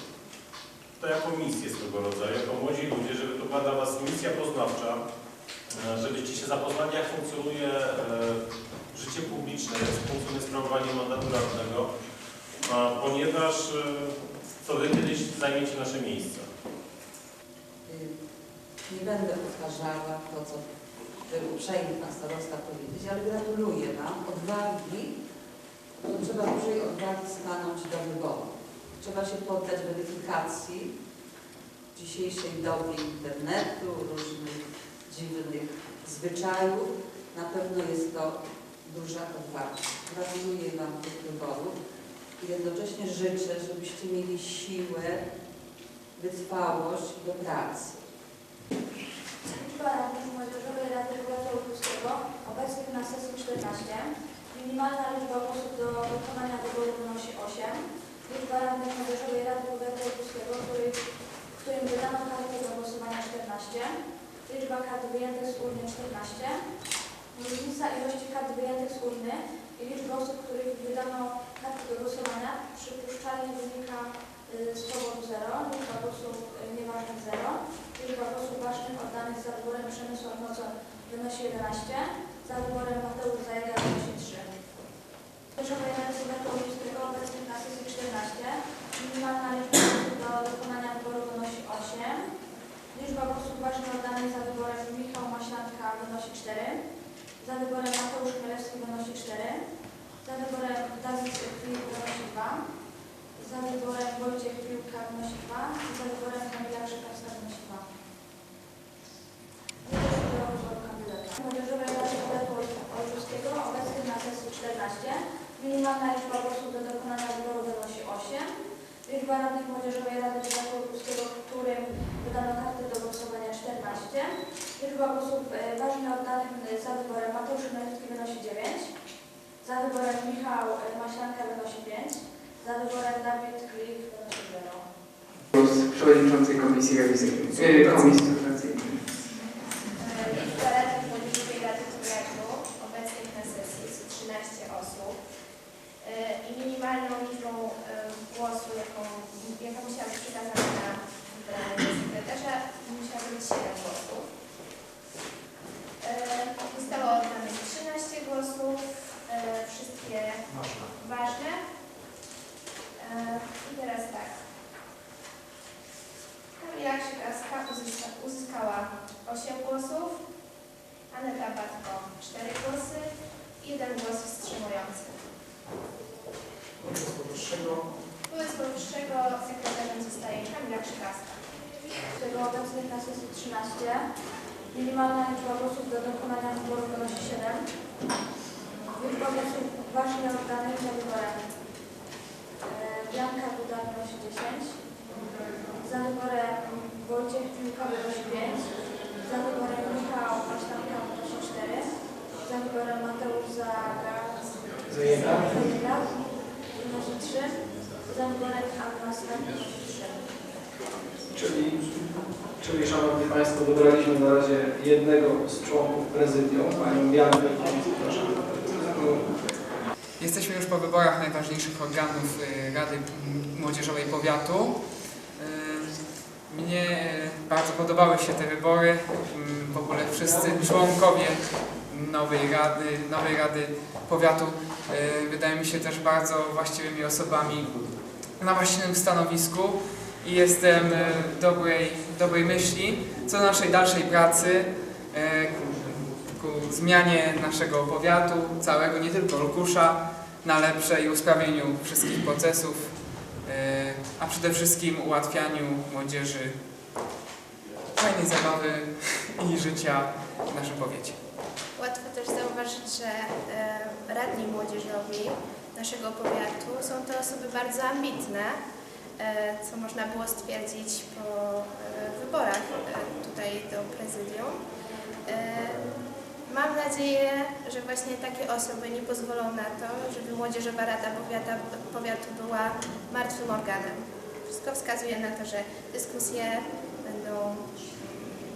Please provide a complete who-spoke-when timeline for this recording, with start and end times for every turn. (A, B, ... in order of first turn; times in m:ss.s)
0:01.1-0:05.0 A
0:05.9-0:08.3 A
0:09.1-0:11.9 A
0:12.7-0:14.0 A
0:14.7-0:16.5 A
0:17.9-0:18.1 B
0:18.9-0:25.2 B
0:26.0-0:30.9 B
0:31.9-0:41.8 B
0:42.4-0:45.3 B
0:46.2-0:48.0 B
0:49.5-1:01.0 C
1:01.5-1:06.6 C
1:07.3-1:24.5 C
1:25.5-1:32.3 C
1:32.9-1:36.8 C
1:37.4-1:39.6 C
1:40.2-1:42.6 C
1:43.4-1:47.8 C
1:49.8-1:58.5 C
1:59.0-2:08.9 C
2:09.6-2:14.9 C
2:15.5-2:19.0 D
2:19.3-2:25.2 E
2:26.0-2:34.3 E
2:36.0-2:41.6 E
2:43.0-2:44.4 E
2:46.6-2:50.2 E
2:51.1-2:53.1 E
2:53.6-2:55.2 E
2:58.3-3:01.4 E
3:02.1-3:04.0 C
3:04.7-3:07.7 C
3:09.0-3:11.6 C
3:12.6-3:14.8 C
3:15.8-3:21.9 C
3:22.4-3:30.2 C
3:24.8-3:25.6 F
3:31.3-3:39.3 F
3:40.2-4:16.6 D
3:50.2-3:50.6 F
4:18.0-4:21.2 D
4:21.8-4:28.6 E
4:29.2-4:34.6 E
4:35.2-4:35.9 E
4:36.4-4:47.7 E